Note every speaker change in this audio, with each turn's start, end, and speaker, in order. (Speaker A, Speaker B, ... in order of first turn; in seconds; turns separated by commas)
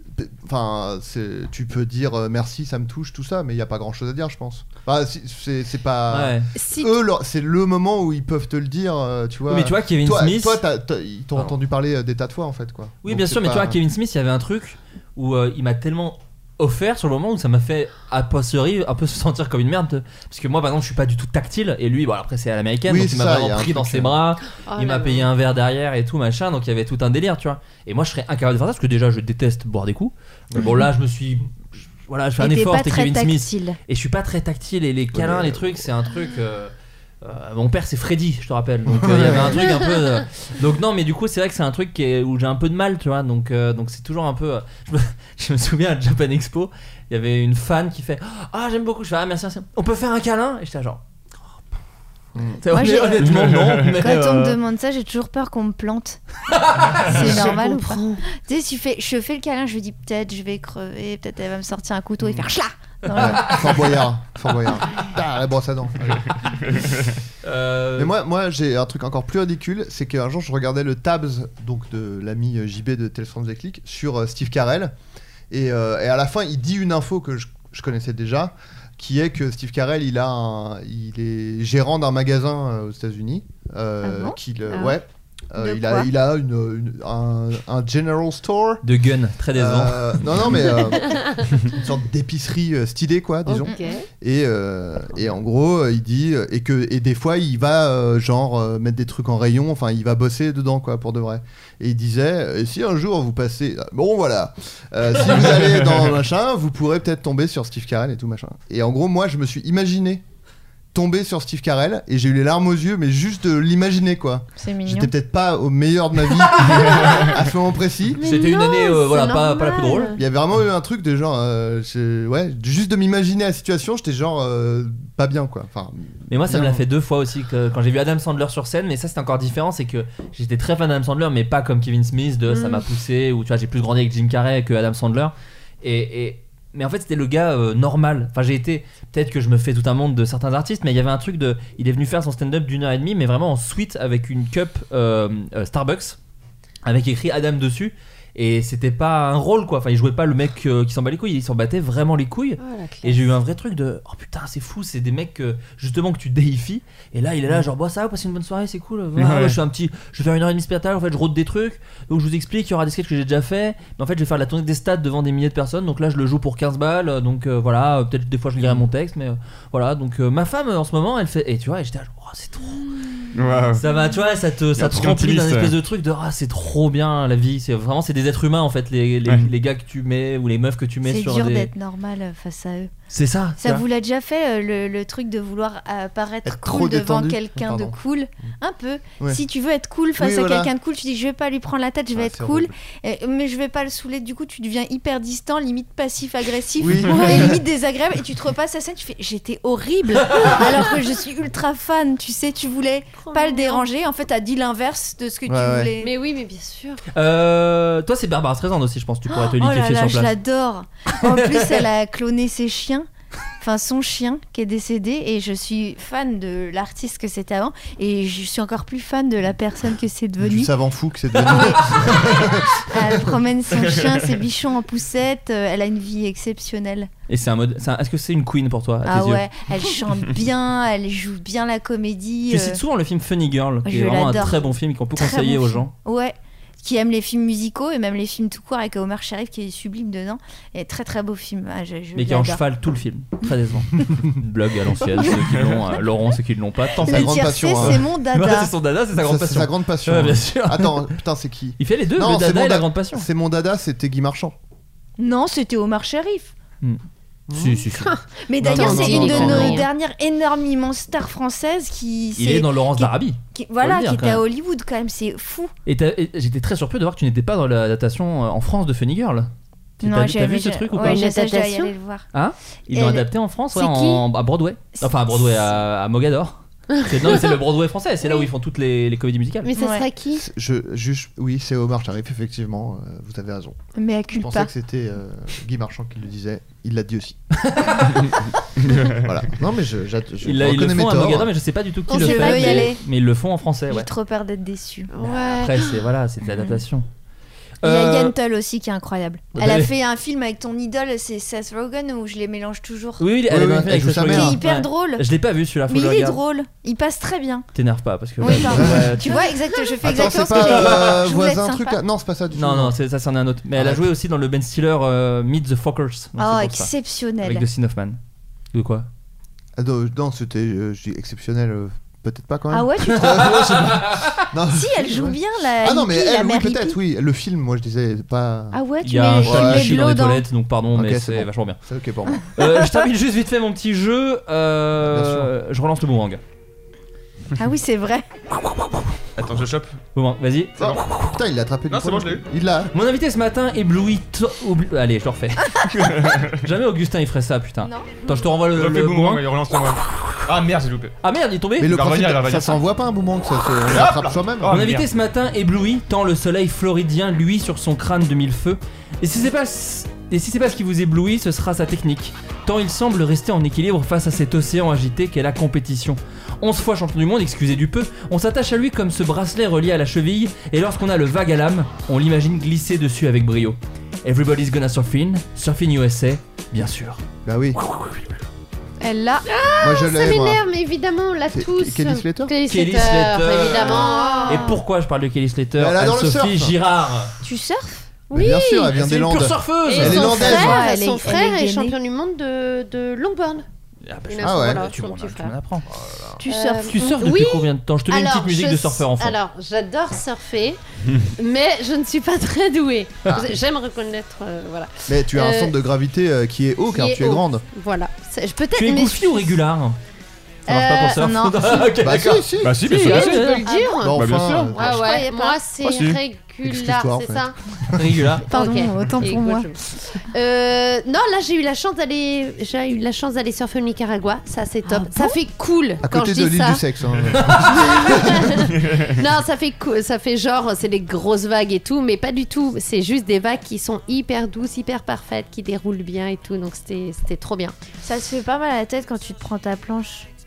Speaker A: 0.1-13.8, Speaker B: 6.1-6.5, Speaker C: 6.5-6.9, Speaker B: 9.5-10.6, Speaker B: 13.0-51.0, Speaker A: 22.9-24.2, Speaker C: 24.6-25.3, Speaker D: 32.4-33.8, Speaker A: 35.1-35.8, Speaker A: 38.9-39.7, Speaker A: 52.3-52.6, Speaker B: 52.6-54.6, Speaker D: 52.7-56.2, Speaker E: 53.3-53.9, Speaker B: 56.5-57.4, Speaker D: 57.0-63.9, Speaker C: 57.0-58.2, Speaker A: 63.1-66.2, Speaker B: 67.4-68.1, Speaker A: 68.0-74.9, Speaker A: 75.5-88.8, Speaker D: 84.0-84.9, Speaker D: 85.6-86.1, Speaker B: 88.8-90.4, Speaker A: 89.5-110.2, Speaker C: 90.9-91.5, Speaker C: 93.5-94.0, Speaker D: 93.6-93.9, Speaker A: 110.9-118.2, Speaker D: 114.6-115.1, Speaker B: 118.2-120.2, Speaker C: 118.2-120.2, Speaker A: 120.2-126.8, Speaker B: 126.3-146.2, Speaker C: 132.5-132.8, Speaker B: 146.8-172.9, Speaker C: 152.6-153.2, Speaker E: 159.2-159.6, Speaker E: 173.3-173.8, Speaker B: 173.8-181.7, Speaker E: 174.8-175.8, Speaker D: 181.0-182.9, Speaker B: 183.1-183.8, Speaker D: 183.6-206.1, Speaker A: 186.4-188.0, Speaker A: 190.2-190.7, Speaker A: 192.1-192.7, Speaker A: 196.8-197.6, Speaker C: 203.2-203.8, Speaker A: 205.5-205.9, Speaker C: 206.0-207.0, Speaker B: 207.1-210.3, Speaker D: 209.3-213.1, Speaker B: 211.3-211.7, Speaker D: 213.6-220.7, Speaker A: 220.4-223.2, Speaker D: 221.4-227.1, Speaker B: 221.8-222.2, Speaker B: 227.3-229.4, Speaker D: 229.0-232.8, Speaker B: 232.5-235.9, Speaker D: 233.8-242.6, Speaker B: 242.1-251.1, Speaker D: 247.0-248.7, Speaker A: 247.0-248.1, Speaker A: 249.2-254.5, Speaker B: 251.8-253.2, Speaker D: 255.2-256.5, Speaker A: 257.5-257.9, Speaker B: 257.5-258.2, Speaker C: 258.0-259.9, Speaker D: 258.5-265.7, Speaker A: 258.6-259.8, Speaker B: 258.9-259.8, Speaker B: 262.4-264.4, Speaker B: 265.9-269.5, Speaker B: 270.0-271.2, Speaker D: 270.0-272.2, Speaker C: 271.0-271.9, Speaker B: 272.3-279.7, Speaker D: 272.9-274.2, Speaker D: 275.0-275.7, Speaker C: 276.9-277.5, Speaker C: 279.6-280.4, Speaker D: 279.8-280.1, Speaker A: 280.4-283.8, Speaker D: 283.9-284.7, Speaker A: 284.3-287.4, Speaker B: 287.6-288.2, Speaker E: 288.2-289.3, Speaker A: 289.2-291.5, Speaker B: 290.4-294.1, Speaker C: 292.1-292.9, Speaker D: 292.1-293.0, Speaker D: 293.9-295.1, Speaker C: 295.1-296.0, Speaker B: 295.2-297.1, Speaker D: 296.4-296.8, Speaker B: 297.8-298.3, Speaker D: 297.8-303.3, Speaker B: 299.5-299.9, Speaker B: 303.2-306.4, Speaker A: 303.5-304.6, Speaker D: 304.3-305.2, Speaker D: 305.9-307.7, Speaker B: 307.7-309.4, Speaker D: 308.4-312.0, Speaker A: 308.4-309.2, Speaker A: 310.0-312.9, Speaker B: 310.7-311.0, Speaker B: 312.5-316.9, Speaker A: 313.7-314.1, Speaker D: 316.4-317.6, Speaker B: 317.4-318.2, Speaker B: 318.7-319.1, Speaker A: 319.8-328.8, Speaker D: 322.7-323.6, Speaker B: 323.2-324.5, Speaker D: 324.7-327.0, Speaker D: 328.7-330.5, Speaker B: 329.0-331.8, Speaker A: 329.4-330.1, Speaker A: 330.9-332.4, Speaker B: 332.6-336.4, Speaker A: 335.1-335.5, Speaker D: 337.6-338.3, Speaker E: 339.4-340.0, Speaker B: 340.1-341.3, Speaker A: 340.8-342.9, Speaker E: 341.9-342.4, Speaker B: 342.9-345.6, Speaker E: 345.9-346.6, Speaker B: 346.6-349.5, Speaker D: 347.8-348.4, Speaker E: 348.7-351.1, Speaker B: 351.2-351.9, Speaker A: 351.8-354.8, Speaker E: 351.9-352.8, Speaker E: 353.9-355.1, Speaker B: 354.7-377.2, Speaker A: 377.4-377.8, Speaker B: 377.8-378.3, Speaker D: 379.0-379.5, Speaker C: 379.5-384.7, Speaker A: 379.8-380.6, Speaker A: 381.5-382.5, Speaker B: 382.7-387.3, Speaker D: 383.6-384.8, Speaker A: 385.8-386.8, Speaker D: 387.4-388.1, Speaker C: 388.3-388.9, Speaker A: 388.3-390.8, Speaker B: 388.9-390.5, Speaker C: 389.8-393.6, Speaker D: 390.3-391.9, Speaker B: 394.0-395.9, Speaker C: 394.3-395.5, Speaker A: 394.4-394.8, Speaker A: 395.9-396.4, Speaker D: 396.4-397.2, Speaker C: 396.5-400.8, Speaker B: 396.8-399.4, Speaker C: 401.4-405.8, Speaker A: 403.3-403.5, Speaker A: 405.1-407.6, Speaker C: 406.9-409.6, Speaker B: 408.8-410.0, Speaker B: 410.7-413.6, Speaker D: 410.7-411.9, Speaker A: 412.0-412.8, Speaker E: 412.6-414.7, Speaker C: 412.9-417.6, Speaker D: 413.6-414.1, Speaker A: 414.0-415.0, Speaker D: 414.7-415.6, Speaker E: 415.8-416.2, Speaker A: 416.6-418.2, Speaker B: 417.9-418.5, Speaker C: 418.5-426.8, Speaker D: 418.5-419.7, Speaker D: 424.9-425.4, Speaker A: 426.0-428.5, Speaker C: 427.7-437.7, Speaker D: 438.0-440.3